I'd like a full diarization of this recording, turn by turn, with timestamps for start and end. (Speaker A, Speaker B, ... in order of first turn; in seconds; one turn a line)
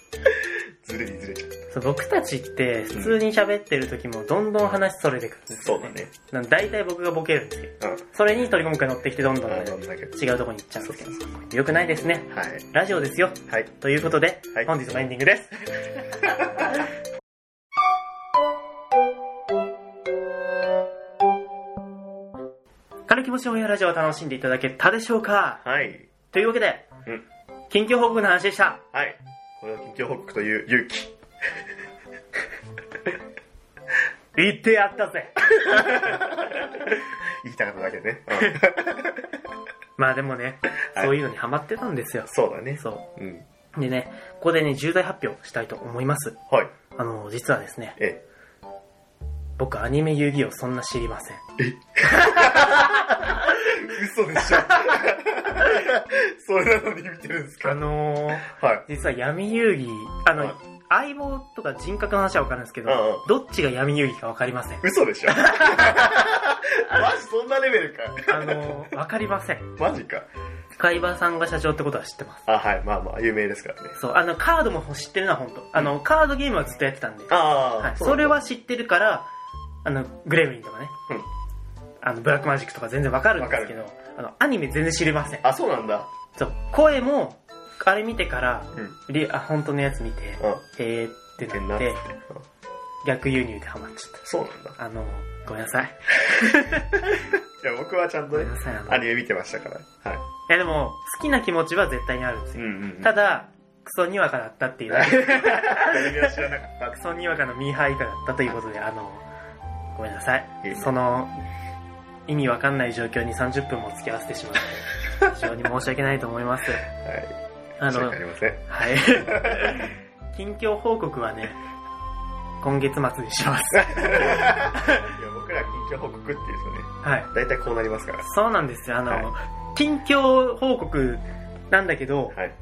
Speaker A: 0.2-1.6
Speaker B: 1.7-16.4
Speaker A: 5.6-6.1
Speaker A: 9.5-10.2
Speaker A: 10.8-11.2
Speaker A: 12.3-12.7
Speaker B: 23.1-25.6
Speaker A: 25.6-26.1
Speaker B: 26.3-26.9
Speaker B: 27.7-28.8
Speaker A: 28.9-31.6
Speaker B: 34.3-36.2
Speaker A: 35.6-39.4
Speaker B: 40.0-43.1
Speaker A: 42.3-43.4
Speaker B: 43.7-46.4
Speaker B: 47.0-48.0
Speaker A: 48.0-48.2
Speaker B: 49.6-51.4
Speaker A: 51.6-57.8
Speaker B: 52.0-52.9
Speaker B: 57.6-66.3
Speaker A: 58.4-58.9
Speaker A: 62.9-63.3
Speaker A: 64.8-68.8
Speaker B: 68.3-69.7
Speaker A: 69.8-70.3
Speaker B: 70.8-72.5
Speaker A: 72.5-74.0
Speaker B: 74.0-79.3
Speaker A: 77.3-78.3
Speaker B: 79.8-81.0
Speaker B: 82.0-85.5
Speaker A: 83.4-83.7
Speaker A: 85.4-86.1
Speaker B: 86.3-92.0
Speaker A: 91.5-92.4
Speaker B: 93.0-94.2
Speaker A: 94.2-94.8
Speaker B: 94.8-97.1
Speaker A: 97.1-100.2
Speaker B: 98.3-99.1
Speaker B: 100.5-106.3
Speaker A: 102.5-103.1
Speaker A: 104.9-107.0
Speaker B: 106.9-109.2
Speaker B: 110.0-111.4
Speaker A: 110.6-110.9
Speaker B: 112.3-116.8
Speaker A: 116.9-117.3
Speaker B: 117.8-121.6
Speaker A: 117.9-119.9
Speaker B: 122.6-125.1
Speaker A: 123.8-128.2
Speaker B: 127.0-127.3
Speaker B: 128.2-132.4